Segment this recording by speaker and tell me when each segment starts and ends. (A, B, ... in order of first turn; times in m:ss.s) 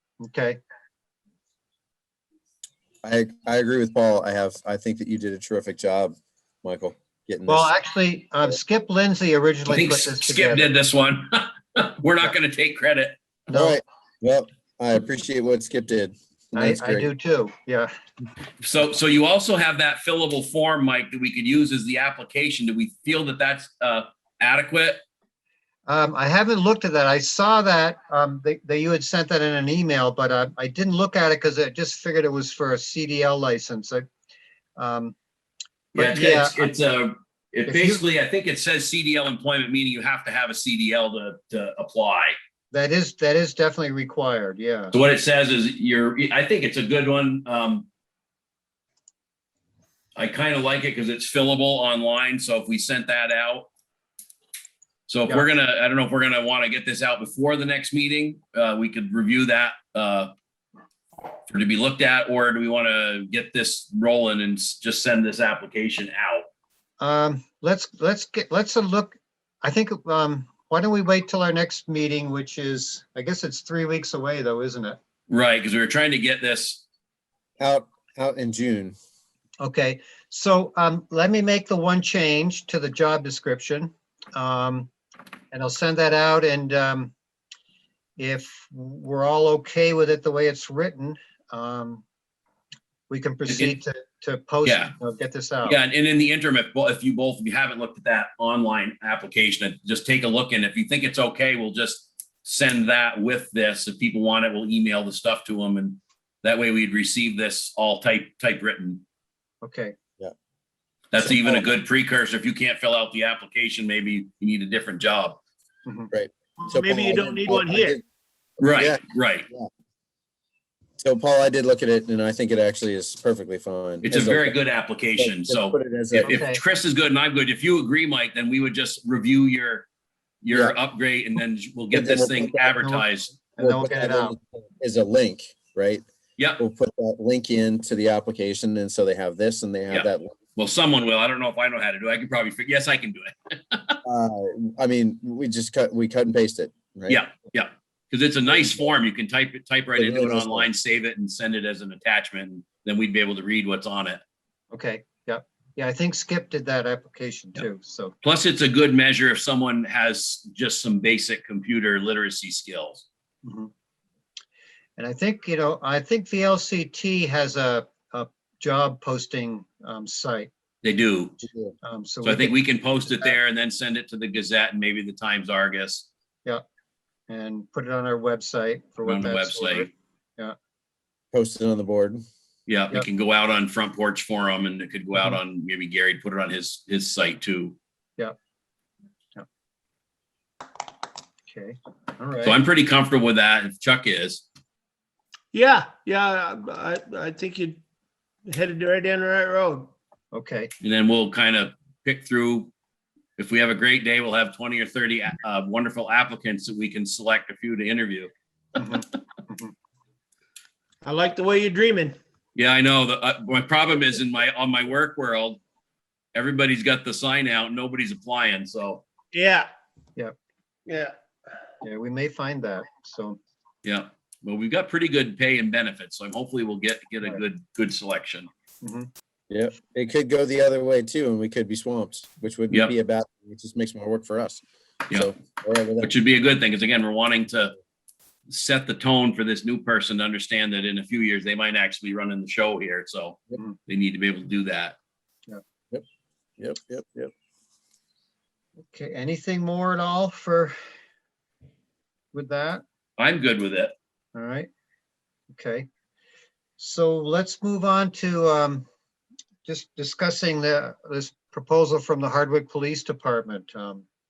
0:00.2-0:00.6 A
0:03.0-0:07.7 B
0:07.5-0:10.7 A
0:09.7-0:13.2 C
0:13.5-0:13.8 A
0:13.5-0:17.1 B
0:16.5-0:17.9 A
0:18.6-0:25.0 C
0:25.9-0:34.0 A
0:34.8-0:35.2 A
0:35.9-0:42.3 C
0:36.0-0:36.6 A
0:37.7-0:38.0 A
0:42.7-0:44.9 A
0:44.9-0:47.8 C
0:50.2-0:53.7 C
0:55.1-1:00.3 C
1:01.5-1:06.4 C
1:07.0-1:15.0 A
1:15.3-1:16.8 C
1:17.6-1:18.9 B
1:19.6-1:24.9 A
1:25.5-1:27.1 A
1:28.2-1:32.0 A
1:33.1-1:35.8 A
1:34.6-1:34.9 C
1:35.6-1:49.0 C
1:49.6-1:49.9 A
1:51.1-1:55.4 C
1:51.2-1:51.7 B
1:55.8-1:56.1 A
1:56.1-1:58.0 B
1:56.6-1:58.0 D
1:58.6-1:59.4 C
1:58.6-1:59.7 B
2:01.0-2:04.5 B
2:04.0-2:09.9 C
2:05.2-2:06.4 B
2:06.3-2:06.6 A
2:10.4-2:13.3 C
2:11.9-2:12.8 B
2:12.8-2:14.4 A
2:13.6-2:16.0 B
2:16.6-2:20.3 B
2:19.9-2:24.0 C
2:24.0-2:27.2 B
2:27.1-2:34.2 C
2:28.5-2:28.8 B
2:30.0-2:30.7 B
2:34.7-2:38.1 A
2:38.2-2:43.0 C
2:43.4-2:43.7 A
2:45.0-2:50.5 A
2:50.8-2:51.4 C
2:51.4-2:51.7 B
2:51.8-2:52.6 A
2:52.2-2:56.1 C
2:57.3-3:00.5 A
2:59.0-2:59.9 C
3:01.3-3:02.2 B
3:02.7-3:07.8 C
3:11.5-3:12.6 A
3:12.4-3:14.4 C
3:15.5-3:17.8 D
3:18.4-3:19.9 D
3:20.3-3:20.7 A
3:20.8-3:22.7 C
3:23.4-3:28.3 C
3:28.8-3:29.7 A
3:31.0-3:32.2 D
3:32.6-3:35.6 C
3:36.3-3:39.0 C
3:39.3-3:39.7 D
3:40.9-3:41.2 D
3:41.8-3:43.4 A
3:43.8-3:48.5 C
3:48.8-3:49.1 A
3:49.5-3:56.1 B
3:56.0-3:57.8 C
3:58.5-4:05.0 C
4:06.6-4:07.3 B
4:08.9-4:10.7 A
4:12.3-4:12.8 A
4:13.2-4:13.9 C
4:14.3-4:14.7 A
4:15.5-4:15.9 A
4:16.8-4:18.8 A
4:19.6-4:24.0 A